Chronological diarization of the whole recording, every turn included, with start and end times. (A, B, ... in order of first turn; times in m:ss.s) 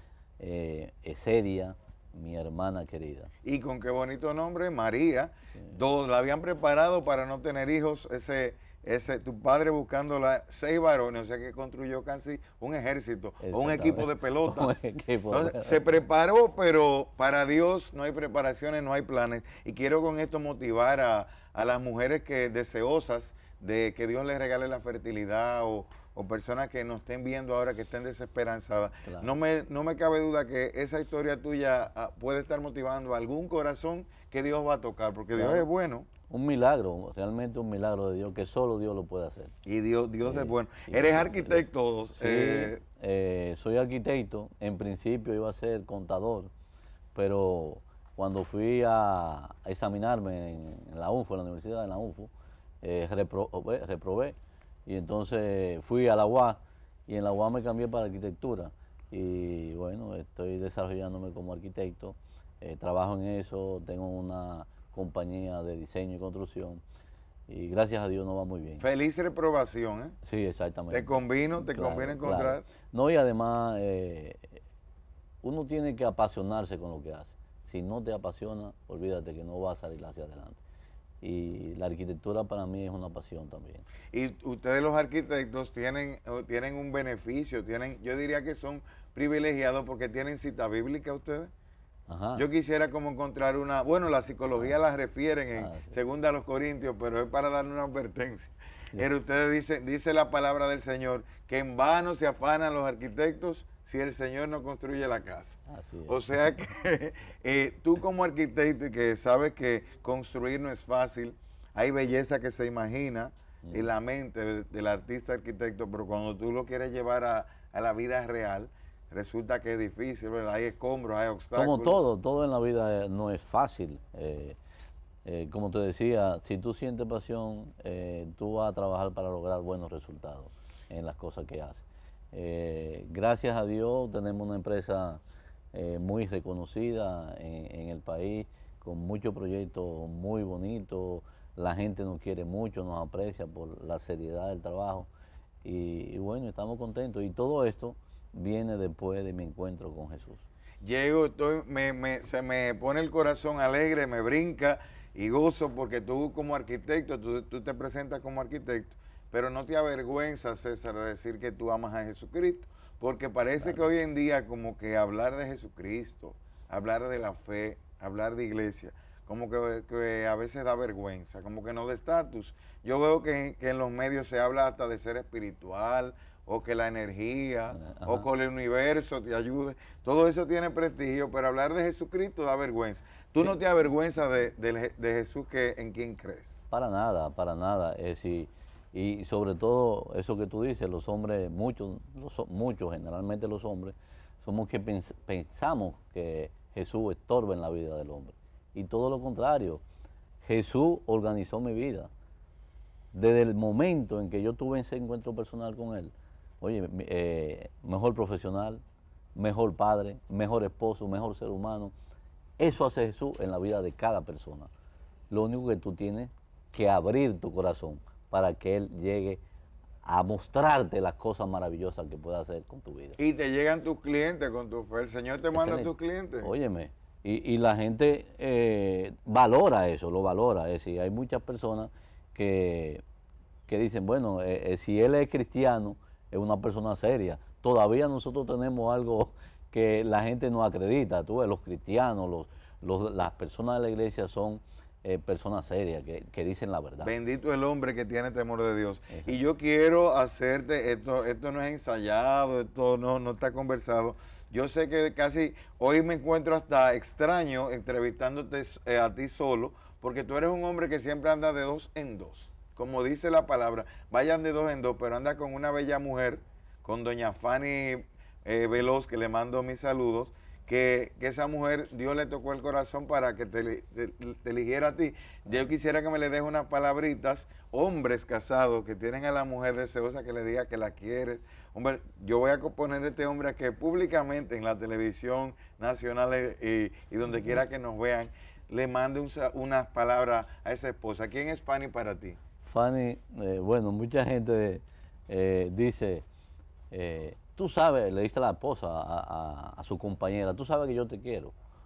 0:00.4-0:03.3 A
0:03.4-0:14.7 B
0:13.4-0:15.8 A
0:15.3-0:36.1 B
0:35.3-0:35.7 A
0:36.3-0:39.5 A
0:39.6-0:42.8 B
0:40.2-0:46.5 A
0:47.1-0:52.3 A
0:52.8-1:06.8 A
1:07.5-1:08.8 A
1:08.8-1:10.2 B
1:10.2-1:14.6 A
1:10.9-1:12.6 B
1:15.4-1:20.6 A
1:21.2-1:23.8 A
1:24.1-1:31.5 B
1:32.1-1:32.4 A
1:32.4-2:02.0 B
1:35.6-1:36.0 A
1:45.7-1:46.3 A
2:01.5-2:04.6 A
2:05.2-2:15.2 A
2:15.7-2:25.1 A
2:25.6-2:30.4 A
2:30.8-3:06.7 B
2:57.7-2:58.3 A
3:06.7-3:19.8 A
3:20.4-3:22.1 A
3:23.1-3:28.8 A
3:29.3-3:31.9 A
3:32.6-3:34.7 A
3:35.3-3:39.4 A
3:40.0-3:43.2 A
3:43.2-3:46.5 B
3:45.5-3:53.0 A
3:53.7-4:07.1 A
4:07.0-4:52.4 B
4:52.6-4:56.2 A
4:56.9-5:01.5 A